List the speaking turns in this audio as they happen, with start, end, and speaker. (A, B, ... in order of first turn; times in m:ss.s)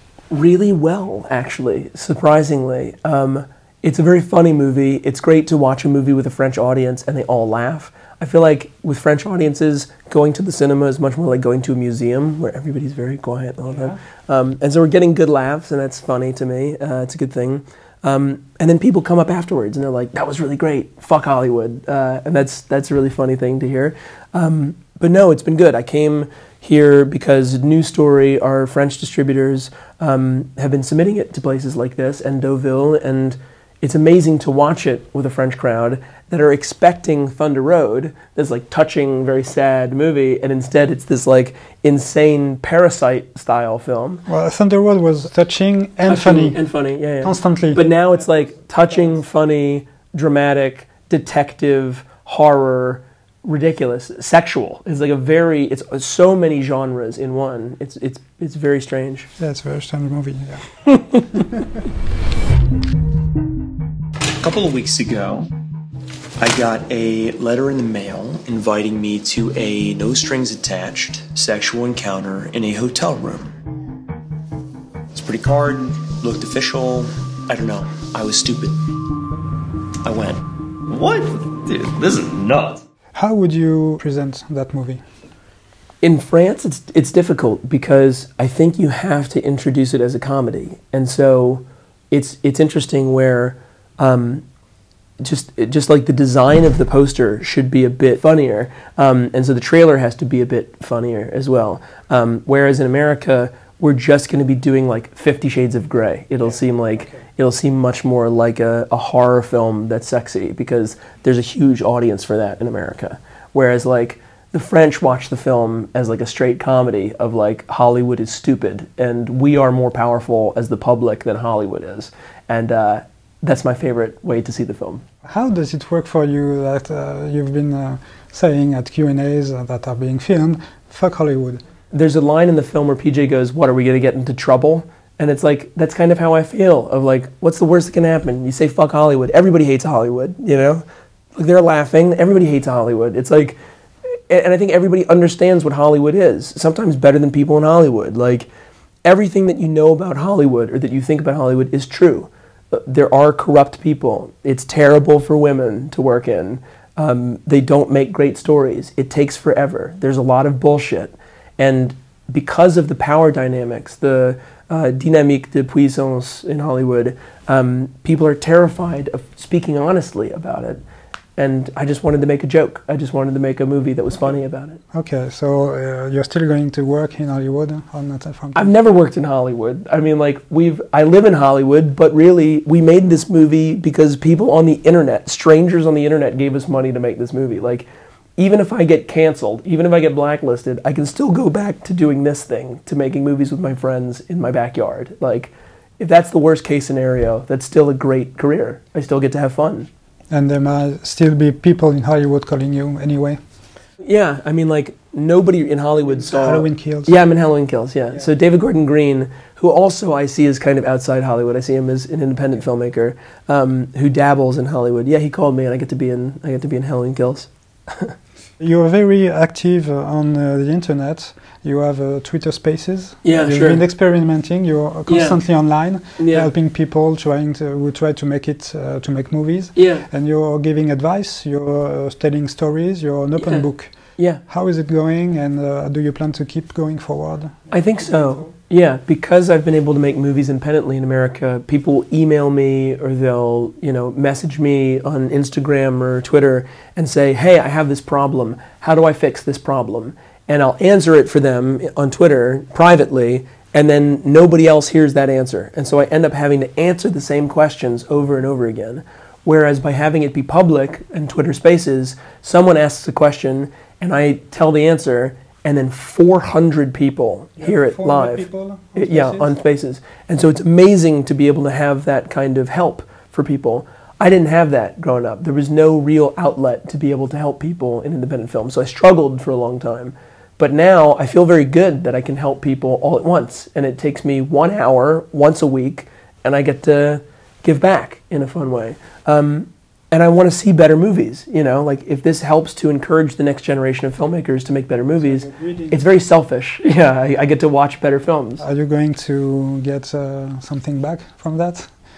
0:00.3-0:44.2 A
0:44.3-0:46.6 B
0:46.1-0:59.3 A
0:47.2-0:47.9 B
0:59.4-1:01.6 B
1:00.9-1:01.2 A
1:04.4-1:05.5 C
1:06.4-1:13.5 C
1:15.1-1:18.8 C
1:20.0-1:22.8 C
1:23.2-1:25.0 B
1:26.0-1:34.4 A
1:35.2-2:05.0 A
1:46.4-1:47.2 B
2:05.2-2:11.6 B
2:11.9-2:20.8 A
2:21.4-2:23.6 A
2:24.3-2:28.5 A
2:29.0-2:50.8 A
2:51.4-2:54.8 A
2:54.9-2:58.7 B
2:58.5-3:19.9 A
3:20.3-3:23.4 B
3:24.0-3:38.2 A
3:26.2-3:27.2 B
3:38.6-3:58.5 B
3:43.2-3:43.8 A
3:45.1-3:45.4 A
3:46.2-3:46.5 A
3:49.8-3:50.0 A
3:53.4-3:54.4 A
3:57.7-4:58.6 A
4:27.6-4:29.6 B
4:55.2-4:56.0 B
4:58.6-5:01.9 B